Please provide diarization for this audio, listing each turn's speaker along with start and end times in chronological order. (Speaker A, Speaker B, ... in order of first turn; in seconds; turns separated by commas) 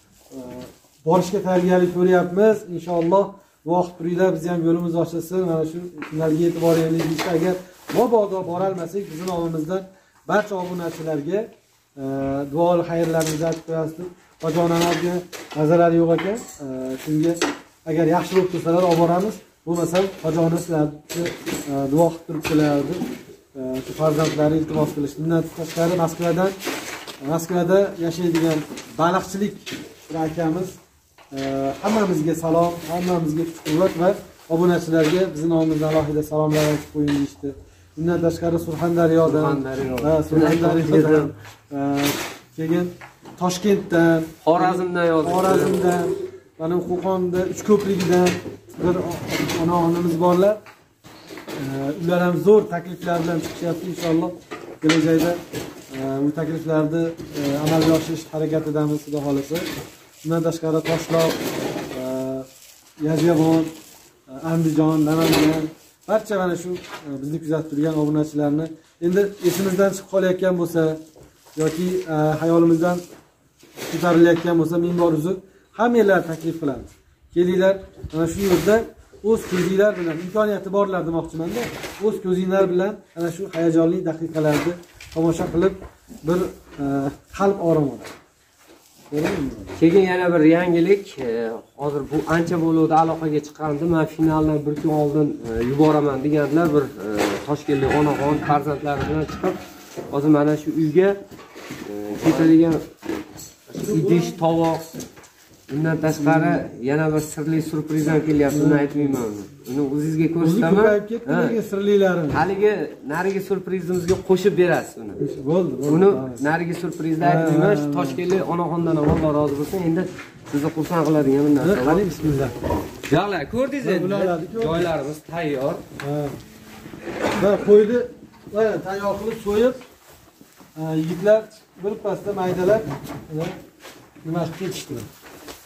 Speaker A: 0.3-23.0, Speaker A: 23.5-26.6, Speaker A: 27.2-30.8, Speaker A: 31.3-50.6, Speaker B: 39.2-41.3, Speaker B: 44.4-45.8, Speaker A: 51.5-59.7, Speaker A: 60.2-62.5, Speaker A: 63.0-63.7, Speaker A: 64.3-71.0, Speaker A: 71.5-73.0, Speaker A: 73.9-88.1, Speaker A: 89.1-89.8, Speaker B: 89.8-101.2, Speaker B: 101.8-102.8, Speaker B: 103.7-104.8, Speaker A: 103.8-104.4, Speaker B: 105.7-111.6, Speaker A: 106.1-106.6, Speaker A: 108.5-109.2, Speaker A: 110.4-112.4, Speaker B: 112.3-115.2, Speaker A: 115.2-116.4, Speaker B: 115.8-122.1, Speaker A: 117.2-118.2, Speaker A: 121.6-122.5, Speaker B: 123.1-125.8, Speaker A: 123.8-124.9, Speaker A: 126.0-126.4, Speaker A: 127.4-129.8, Speaker A: 130.7-133.6, Speaker A: 134.2-135.1